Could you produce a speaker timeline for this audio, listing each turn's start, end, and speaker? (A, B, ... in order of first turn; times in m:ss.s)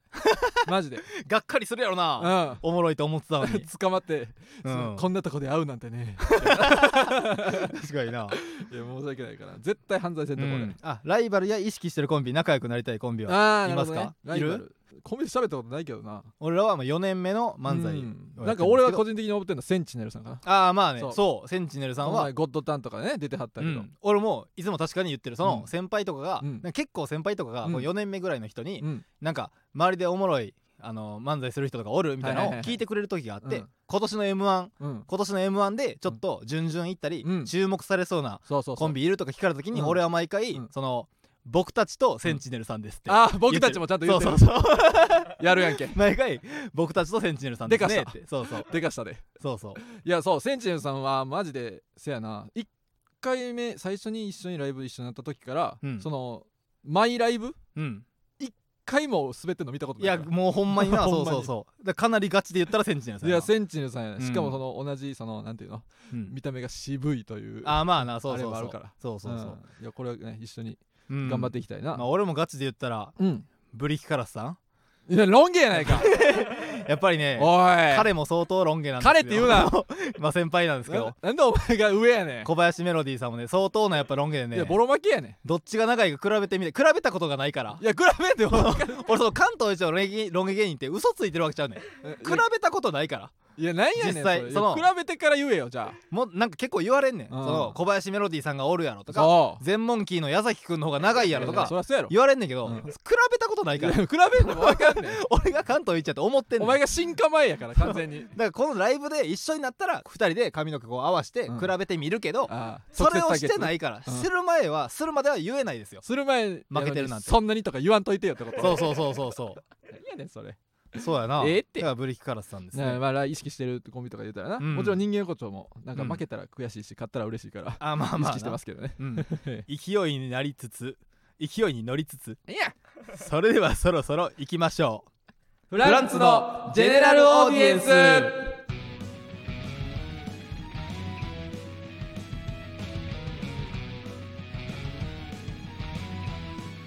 0:00.1-0:03.7 A
0:00.6-0:01.0 B
0:02.2-0:02.6 B
0:03.4-0:07.7 B
0:04.6-0:05.0 A
0:06.2-0:08.4 A
0:08.3-0:10.8 B
0:10.4-0:14.6 A
0:13.3-0:16.3 B
0:16.4-0:19.0 A
0:17.7-0:20.4 B
0:20.4-0:22.3 A
0:22.0-0:23.9 B
0:23.6-0:48.7 A
0:25.4-0:25.7 B
0:26.4-0:26.7 B
0:27.6-0:27.9 B
0:28.8-0:29.0 B
0:32.2-0:32.8 B
0:33.4-0:33.7 B
0:34.8-0:35.1 B
0:37.2-0:37.5 B
0:38.5-0:39.0 B
0:39.7-0:40.0 B
0:43.1-0:46.0 B
0:47.6-0:49.2 B
0:49.4-0:49.8 A
0:49.8-0:52.7 B
0:53.2-0:57.6 B
0:55.8-0:56.1 A
0:57.8-0:58.0 A
0:58.4-1:01.5 B
1:00.0-1:03.5 A
1:03.2-1:12.0 B
1:04.2-1:04.6 A
1:07.6-1:09.6 A
1:11.1-1:13.2 A
1:13.2-1:13.5 B
1:13.7-1:14.6 A
1:15.1-1:16.1 B
1:15.7-1:21.2 A
1:17.4-1:18.1 B
1:19.0-1:19.7 B
1:20.9-1:22.5 B
1:22.4-1:24.8 A
1:24.5-1:25.4 B
1:25.4-1:27.8 A
1:27.8-1:29.0 B
1:28.5-1:33.3 A
1:32.0-1:32.4 B
1:33.6-1:36.0 B
1:34.0-1:34.8 A
1:36.1-1:46.8 A
1:37.3-1:37.8 B
1:39.1-1:39.6 B
1:41.2-1:42.1 B
1:43.8-1:45.2 B
1:46.6-1:48.3 B
1:47.8-1:56.0 A
1:51.5-1:51.7 B
1:52.5-1:54.3 B
1:56.0-1:59.0 B
1:56.7-1:57.4 A
1:58.6-1:59.6 A
1:59.9-2:01.9 B
2:01.0-2:03.0 A
2:02.7-2:09.6 B
2:04.6-2:05.0 A
2:05.9-2:06.2 A
2:07.8-2:12.4 A
2:12.5-2:12.7 B
2:13.1-2:15.0 A
2:15.7-2:18.5 B
2:15.8-2:18.3 A